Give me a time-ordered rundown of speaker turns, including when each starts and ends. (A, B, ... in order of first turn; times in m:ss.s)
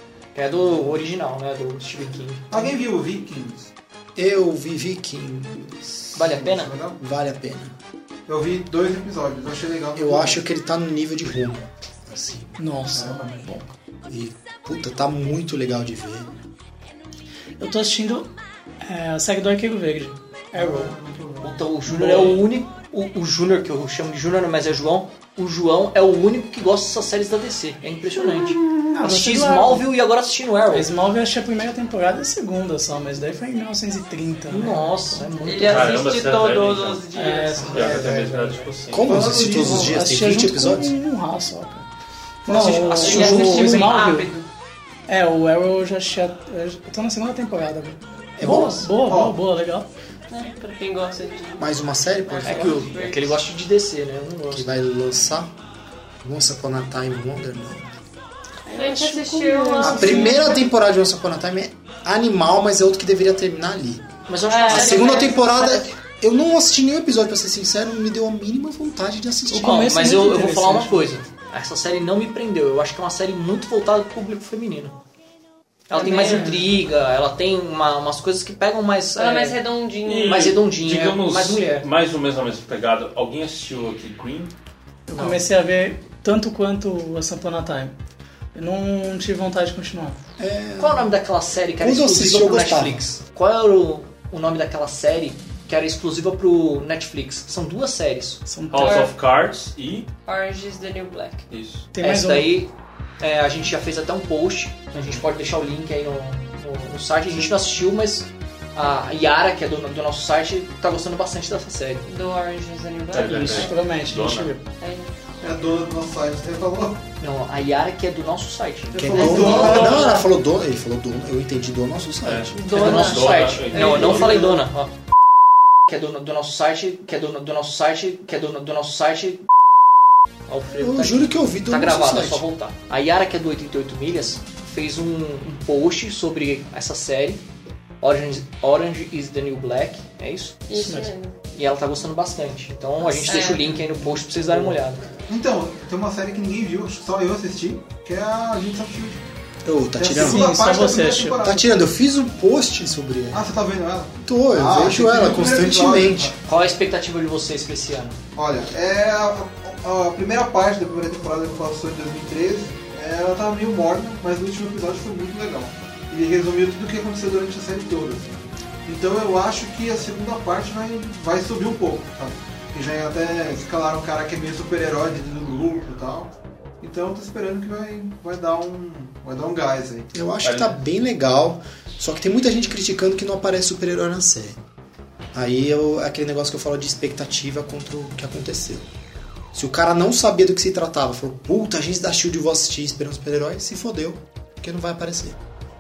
0:00.3-0:02.6 A
0:02.5-0:03.7 B
0:04.2-0:06.0 C
0:06.1-0:06.7 A
0:06.2-0:07.0 B
0:07.0-0:07.7 C
0:08.3-0:10.4 B
0:09.9-0:12.6 C
0:12.6-0:13.6 D
0:12.9-0:13.7 B
0:14.0-0:16.4 C
0:17.6-0:18.3 D
0:18.8-0:20.9 D
0:20.5-0:21.6 B
0:21.4-0:30.9 A
0:28.2-0:28.9 E
0:28.9-0:29.9 D
0:30.7-0:35.3 D
0:34.5-0:36.1 A
0:35.4-0:37.9 E
0:35.6-0:37.0 F
0:37.1-0:38.6 D
0:37.7-0:39.3 F
0:38.9-0:40.9 C
0:39.0-0:40.0 B
0:39.5-0:41.8 D
0:42.4-0:44.3 D
0:42.5-0:44.5 E
0:43.0-0:43.4 A
0:45.1-0:49.9 D
0:48.4-0:48.9 C
0:49.0-0:49.4 B
0:50.3-0:51.7 E
0:51.6-0:52.9 C
0:52.2-0:53.4 E
0:52.4-0:54.7 A
0:54.5-0:55.5 C
0:56.2-0:58.0 C
0:58.7-1:00.4 E
0:58.7-1:00.5 D
0:59.8-1:04.1 C
1:04.3-1:05.8 A
1:04.5-1:05.4 E
1:04.7-1:09.9 C
1:09.5-1:11.1 D
1:09.6-1:15.0 A
1:15.9-1:19.6 A
1:15.9-1:16.6 E
1:16.0-1:16.6 D
1:19.2-1:20.6 E
1:20.0-1:24.5 F
1:20.2-1:21.9 A
1:25.1-1:27.9 D
1:25.1-1:25.4 A
1:28.5-1:30.2 D
1:30.4-1:31.1 C
1:30.8-1:38.4 A
1:31.8-1:33.0 C
1:38.4-1:39.0 D
1:38.7-1:40.1 F
1:38.8-1:39.1 E
1:40.2-1:41.4 E
1:41.5-1:41.9 F
1:41.9-1:42.6 D
1:42.0-1:52.0 A
1:52.0-1:53.8 E
1:53.1-1:54.5 F
1:53.2-1:54.6 D
1:54.8-1:55.1 E
1:55.4-1:57.0 B
1:57.2-1:59.9 A
1:58.9-2:00.1 B
1:58.9-2:02.6 C
1:59.1-2:00.2 E
1:59.6-2:00.0 F
2:02.2-2:04.5 F
2:02.5-2:04.5 E
2:02.7-2:04.9 A
2:05.9-2:09.4 A
2:10.5-2:17.4 A
2:10.7-2:12.4 C
2:18.0-2:20.7 A
2:20.7-2:21.3 E
2:20.8-2:21.1 D
2:21.5-2:25.0 A
2:23.2-2:23.7 E
2:25.3-2:29.2 B
2:29.6-2:30.5 C
2:30.0-2:31.7 B
2:30.1-2:31.4 D
2:31.4-2:33.4 C
2:33.3-2:36.4 B
2:34.2-2:36.3 C
2:36.4-2:38.2 A
2:38.3-3:00.1 B
3:00.1-3:04.6 C
3:00.4-3:00.8 F
3:05.3-3:08.9 C
3:09.5-3:15.4 C